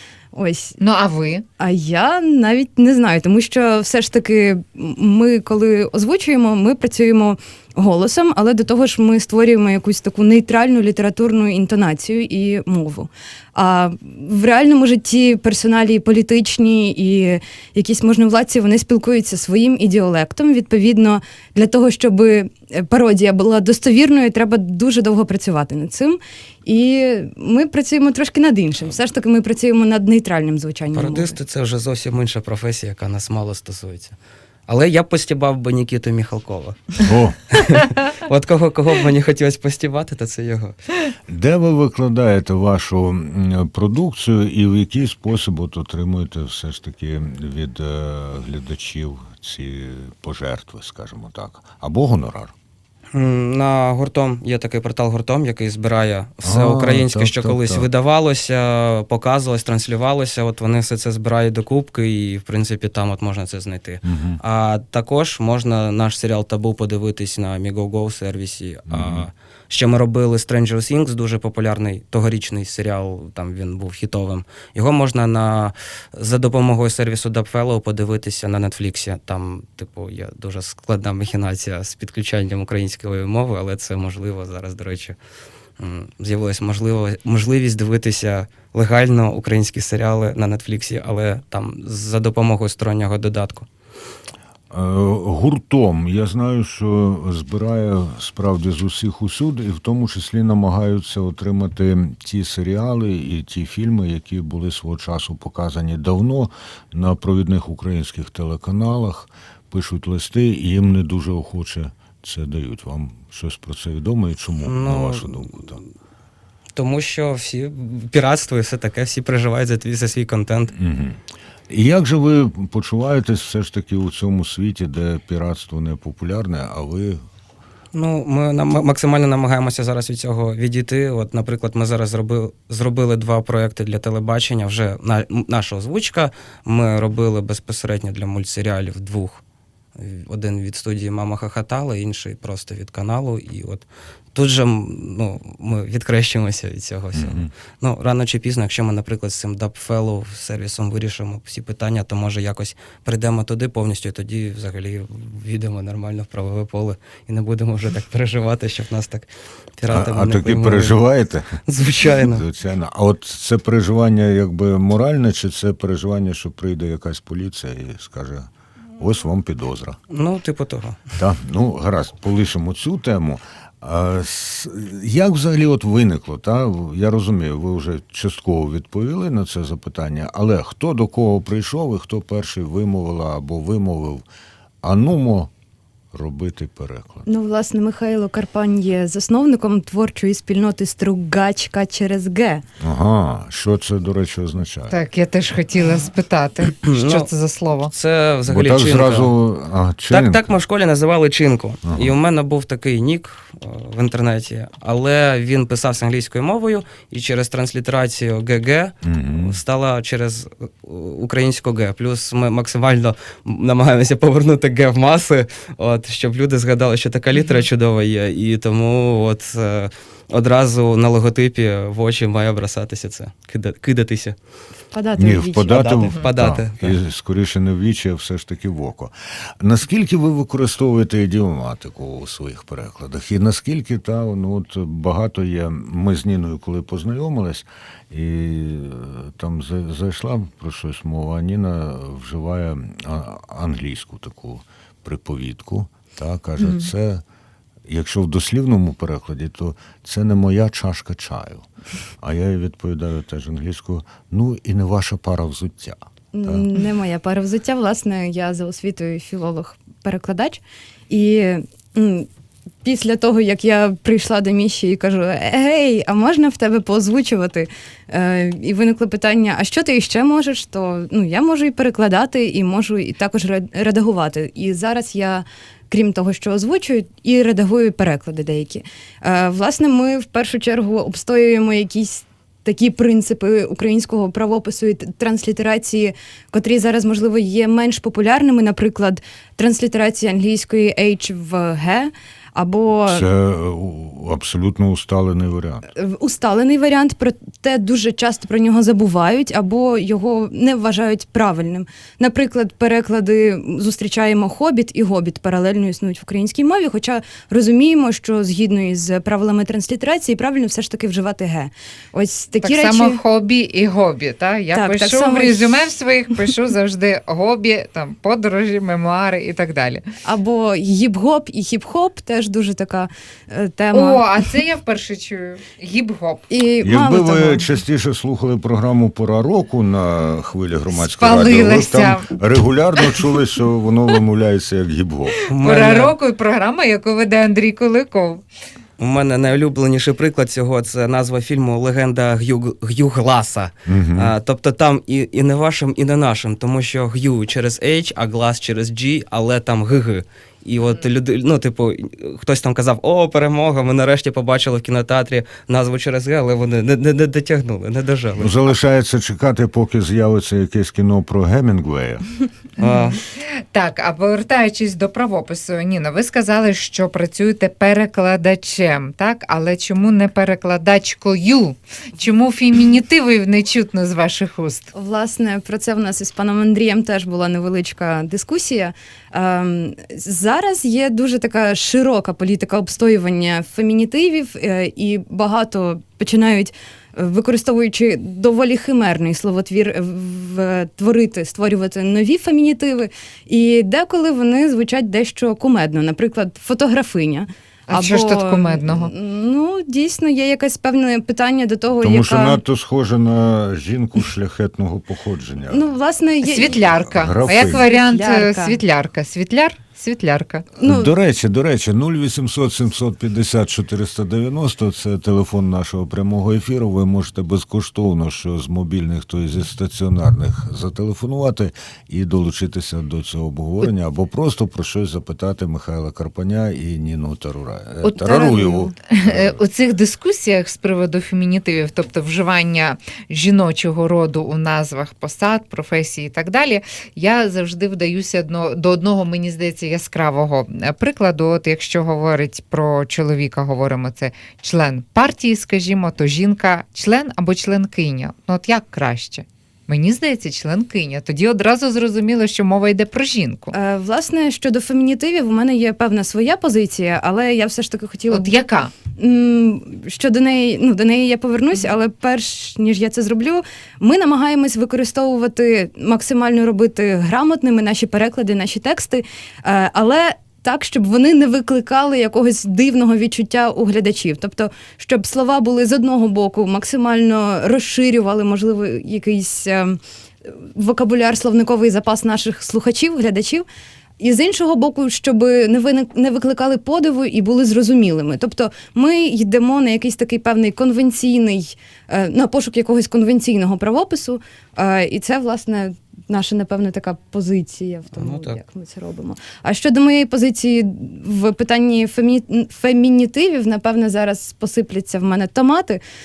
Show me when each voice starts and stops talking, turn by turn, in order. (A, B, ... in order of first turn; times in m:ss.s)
0:00.3-0:00.8 A
0:00.8-0:01.4 B
0:01.6-0:31.4 A
0:30.9-0:34.2 C
0:34.7-0:40.8 C
0:37.0-0:37.4 D
0:41.3-0:52.5 D
0:53.1-1:25.2 C
0:56.4-0:57.9 D
1:04.0-1:04.4 D
1:08.9-1:09.3 D
1:25.8-1:33.7 C
1:34.7-1:55.8 D
1:54.6-1:55.8 C
1:56.7-2:00.7 C
2:00.7-2:07.2 D
2:07.9-2:19.4 C
2:20.0-2:41.0 C
2:27.2-2:27.5 D
2:39.9-2:41.6 D
2:41.6-2:42.4 C
2:42.2-2:50.0 D
2:50.1-2:51.0 C
2:51.2-3:04.2 D
3:04.8-3:05.5 D
3:06.1-3:07.2 D
3:07.2-3:12.6 A
3:12.8-3:15.0 D
3:14.9-3:17.9 B
3:16.7-3:17.3 C
3:17.9-3:19.3 C
3:18.5-3:20.4 D
3:20.1-3:44.4 C
3:21.8-3:22.1 D
3:29.0-3:29.5 D
3:44.9-3:45.7 A
3:45.2-4:07.2 D
3:45.7-3:47.0 C
4:06.6-4:06.9 B
4:07.9-4:11.7 D
4:12.2-4:16.6 D
4:16.3-4:22.3 A
4:22.8-4:53.2 A
4:53.0-4:55.9 D
4:56.0-5:13.2 A
5:12.6-5:20.0 B
5:14.7-5:15.8 A
5:20.2-5:24.4 A
5:23.9-5:26.5 B
5:26.5-5:27.7 A
5:26.8-5:35.4 D
5:30.9-5:32.3 B
5:35.4-5:38.4 B
5:35.5-5:36.2 C
5:39.0-5:58.7 C
5:43.8-5:44.3 D
5:58.4-6:02.2 D
6:02.8-6:14.9 B
6:02.8-6:03.2 C
6:14.9-6:42.6 A
6:37.9-6:39.1 B
6:42.0-6:45.9 D
6:45.7-6:46.9 A
6:46.4-6:50.6 B
6:47.1-6:47.9 D
6:47.6-6:48.8 A
6:50.8-6:51.1 A
6:50.8-7:09.6 D
7:08.2-7:08.9 A
7:09.1-7:33.7 B
7:33.7-8:03.6 A
7:38.3-7:38.9 B
8:04.2-8:26.0 A
8:18.1-8:18.6 C